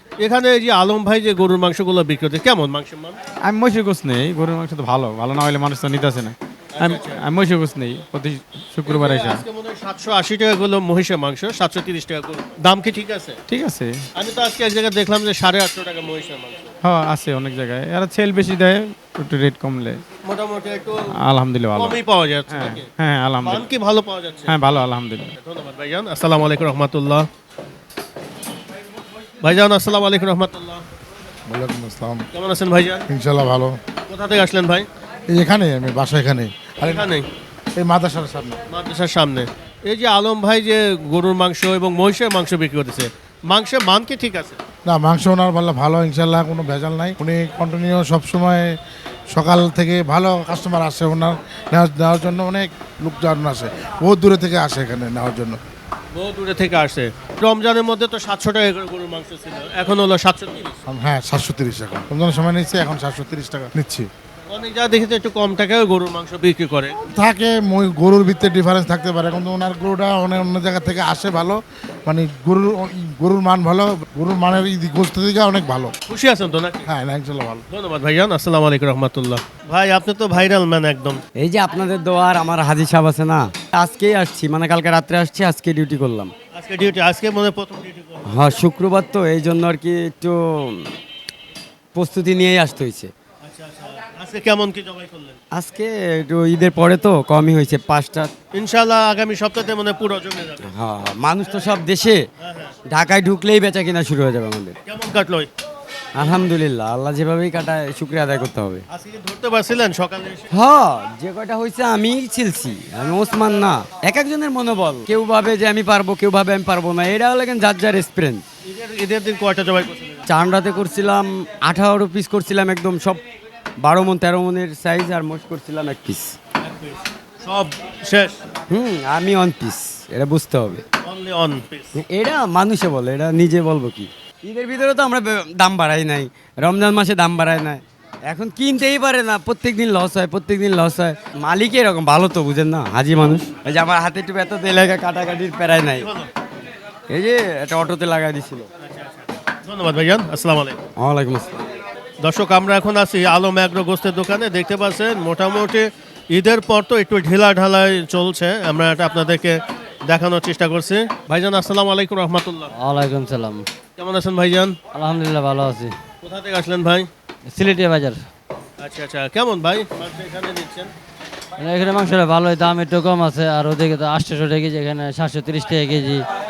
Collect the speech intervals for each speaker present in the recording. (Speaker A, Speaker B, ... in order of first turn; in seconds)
Speaker A: 0.2-3.2, 6.7-7.2, 8.8-13.4, 14.2-16.7, 20.2-21.0, 21.7-22.9, 23.4-24.5, 25.4-27.3, 29.4-30.8, 32.4-33.0, 34.1-34.9, 36.8-37.3, 38.7-44.6, 56.1-60.8, 64.5-66.9, 76.1-76.9, 77.7-81.2, 86.5-88.2, 93.4-95.4, 98.5-100.7, 102.4-102.7, 104.9-105.5, 108.9-110.5, 118.7-120.2, 126.6-128.4, 131.0-131.9, 146.0-146.3, 148.8-150.8, 152.2-162.7, 164.0-164.8, 166.2-167.1, 168.8-170.9
Speaker B: 3.4-9.4, 13.5-14.0, 16.8-20.0, 21.2-22.0, 22.5-23.7, 24.5-25.3
Speaker C: 31.5-32.2, 33.1-33.8, 35.3-37.1, 37.8-38.6, 44.9-48.7, 49.3-55.6, 60.9-64.1, 67.1-75.9, 76.9-77.6
Speaker D: 81.4-86.3, 88.3-90.9, 92.0-93.1, 95.5-98.3, 100.7-102.2, 102.9-104.8, 106.2-108.8, 110.5-118.4, 120.3-123.2, 123.8-126.3, 128.7-130.8, 132.0-146.1, 147.1-148.7, 151.0-151.7
Speaker E: 162.8-163.7, 164.9-166.0, 167.5-168.2, 171.6-176.3